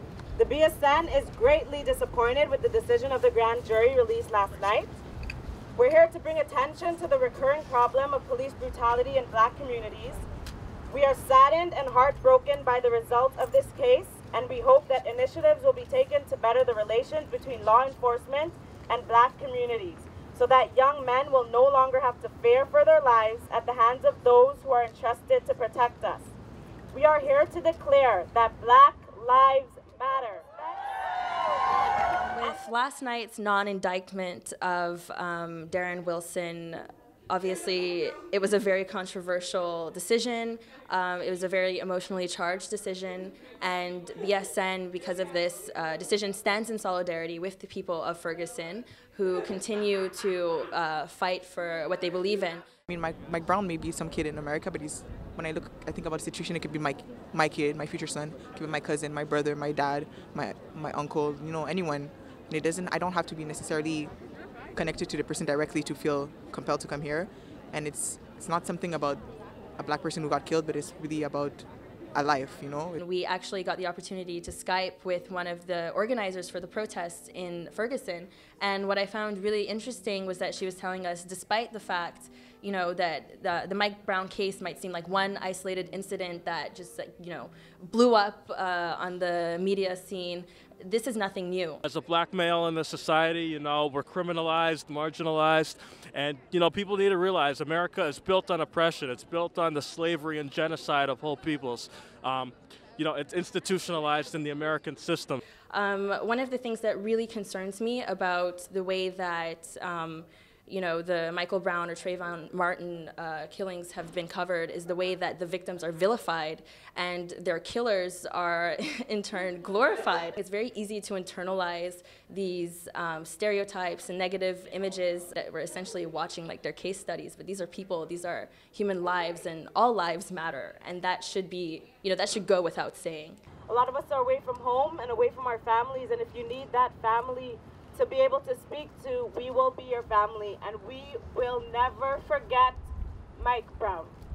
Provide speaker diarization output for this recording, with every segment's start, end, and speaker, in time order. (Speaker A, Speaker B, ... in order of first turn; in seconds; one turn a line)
Speaker A: 0.4-5.0
Speaker A: 5.8-10.3
Speaker A: 10.9-26.4
Speaker A: 26.9-30.9
Speaker B: 32.1-52.6
Speaker C: 52.9-64.1
Speaker C: 64.8-69.2
Speaker C: 69.8-73.0
Speaker B: 73.0-91.8
Speaker D: 91.8-105.4
Speaker B: 105.7-133.4
Speaker A: 133.7-142.8
Speaker A: 143.4-144.2